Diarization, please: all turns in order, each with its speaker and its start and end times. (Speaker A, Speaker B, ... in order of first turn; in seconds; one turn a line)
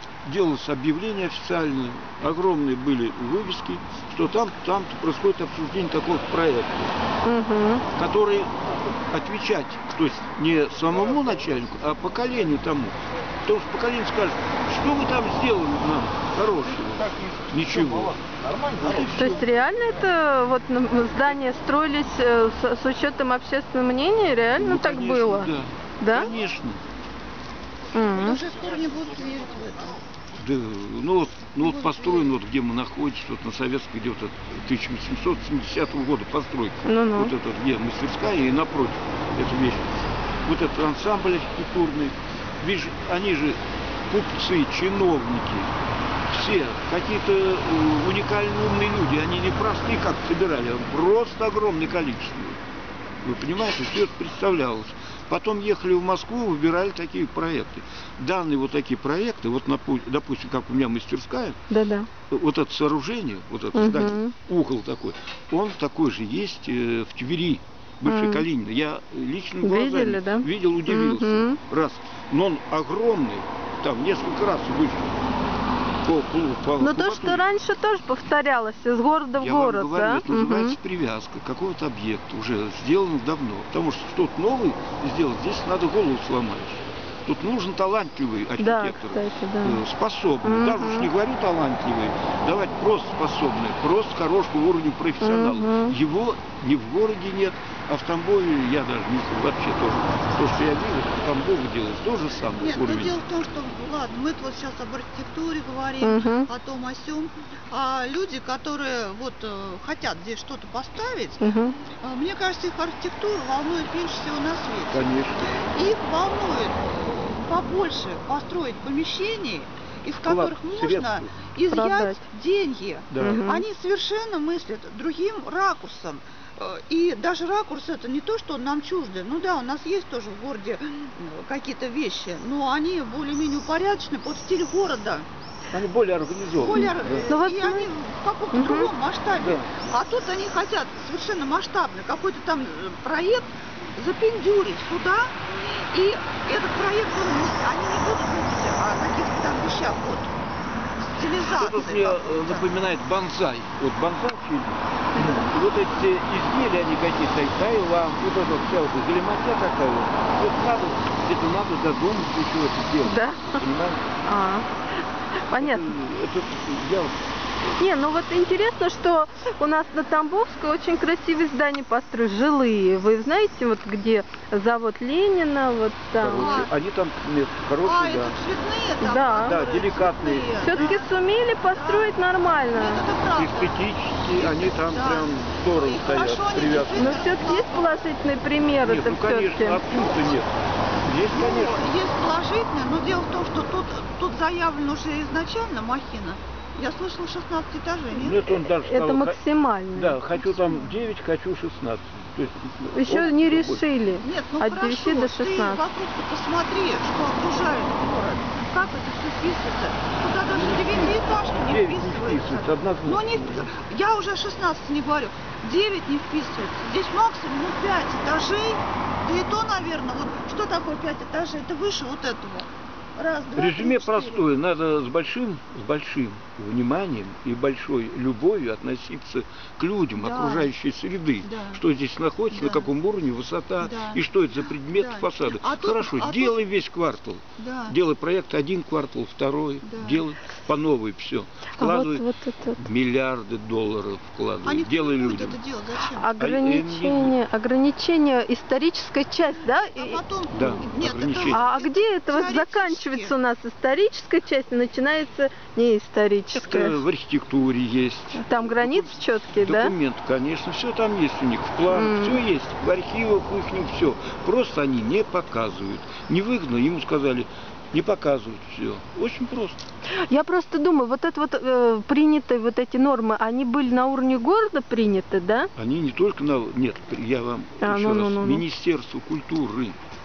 Speaker A: 0.2-6.9
Speaker B: 7.2-7.8
Speaker A: 7.9-19.4
Speaker B: 19.1-26.3
Speaker A: 24.6-26.8
Speaker B: 27.9-28.4
Speaker C: 28.1-30.0
Speaker A: 30.4-45.7
Speaker C: 31.6-32.3
Speaker B: 36.9-37.3
Speaker A: 46.3-52.6
Speaker A: 53.2-61.6
Speaker B: 61.7-62.1
Speaker A: 62.3-75.1
Speaker B: 63.7-64.3
Speaker B: 68.0-68.5
Speaker B: 69.6-71.6
Speaker A: 76.0-77.5
Speaker B: 76.8-80.8
Speaker A: 79.4-103.2
Speaker B: 88.6-89.8
Speaker B: 90.4-91.1
Speaker B: 95.2-95.9
Speaker C: 102.6-135.3
Speaker B: 106.0-106.5
Speaker B: 111.4-111.8
Speaker A: 114.9-115.5
Speaker A: 120.2-121.3
Speaker B: 121.7-122.2
Speaker A: 123.1-123.4
Speaker B: 123.2-123.7
Speaker A: 135.7-137.3
Speaker C: 136.6-150.3
Speaker B: 136.7-137.9
Speaker B: 138.5-138.9
Speaker A: 139.3-139.7
Speaker C: 151.1-152.7
Speaker A: 151.5-164.1
Speaker B: 155.1-155.5
Speaker B: 163.0-163.6
Speaker B: 164.2-164.7
Speaker B: 165.5-165.9
Speaker A: 165.5-167.2
Speaker B: 167.8-176.7
Speaker A: 176.2-178.3
Speaker C: 176.3-176.7
Speaker C: 177.8-181.1
Speaker B: 179.0-179.6
Speaker A: 179.4-181.0
Speaker B: 180.6-183.0
Speaker C: 181.7-182.2
Speaker C: 182.7-188.1
Speaker A: 183.3-187.2
Speaker B: 186.9-190.1
Speaker A: 188.8-191.9
Speaker C: 189.9-190.4
Speaker C: 191.3-198.4
Speaker A: 198.1-199.4
Speaker B: 198.5-200.2
Speaker A: 199.9-203.8
Speaker C: 200.3-201.0
Speaker B: 202.9-205.8
Speaker C: 204.2-224.5
Speaker A: 210.5-213.6
Speaker A: 223.6-245.6
Speaker C: 230.1-230.7
Speaker C: 231.4-231.8
Speaker C: 232.5-232.9
Speaker C: 233.8-234.2
Speaker C: 234.9-236.7
Speaker C: 237.6-238.0
Speaker C: 239.8-240.2
Speaker B: 241.8-242.8
Speaker C: 244.6-246.3
Speaker B: 246.1-250.8
Speaker A: 246.4-247.3
Speaker C: 249.6-253.3
Speaker A: 250.5-251.7
Speaker B: 251.5-257.0
Speaker A: 256.5-269.8
Speaker B: 258.4-259.9
Speaker B: 261.9-262.4
Speaker B: 270.1-275.7
Speaker A: 275.8-280.0
Speaker B: 277.8-278.6